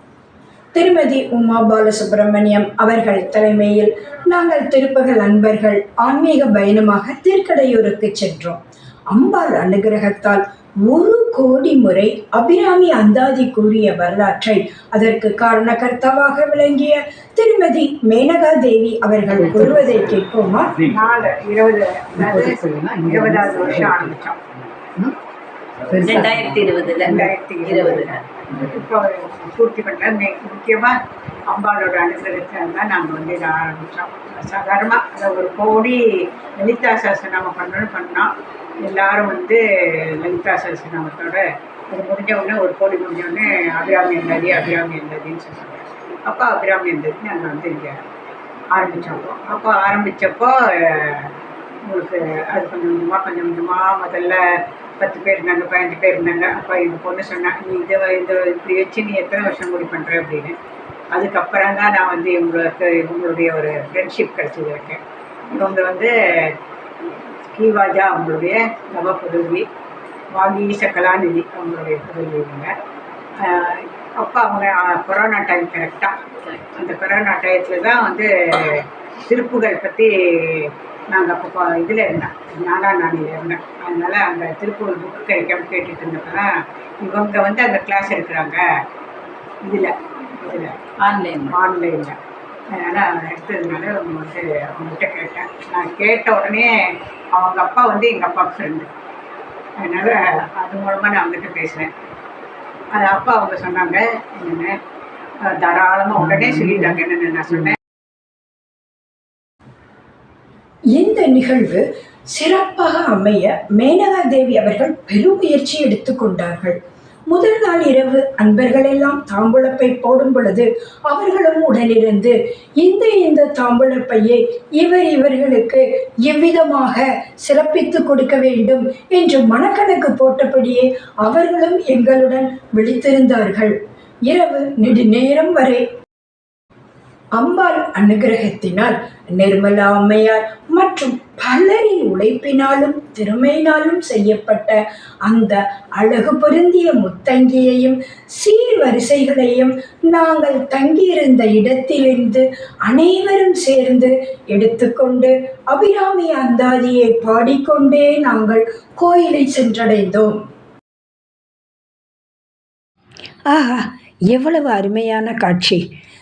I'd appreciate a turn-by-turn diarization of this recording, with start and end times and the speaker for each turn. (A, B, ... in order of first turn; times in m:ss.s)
0:00.7-0:20.8 A
0:19.4-0:19.9 B
0:20.8-0:24.4 C
0:22.2-0:24.1 B
0:25.9-0:28.2 B
0:26.0-0:31.0 C
0:31.5-0:38.3 C
0:38.8-0:48.0 C
0:48.7-1:00.6 C
1:01.1-1:05.0 C
1:05.5-1:06.6 C
1:07.5-1:09.7 C
1:10.3-1:12.7 C
1:13.4-1:28.6 C
1:29.6-1:30.8 C
1:31.0-1:31.6 B
1:31.5-1:32.2 C
1:32.7-1:36.7 C
1:37.3-1:38.9 C
1:39.8-1:41.9 C
1:42.9-1:44.8 C
1:45.4-1:47.8 C
1:46.4-1:46.8 B
1:50.9-1:56.8 A
1:57.3-2:13.8 A
2:14.3-2:15.8 A
2:17.4-2:40.4 A
2:43.5-2:45.8 A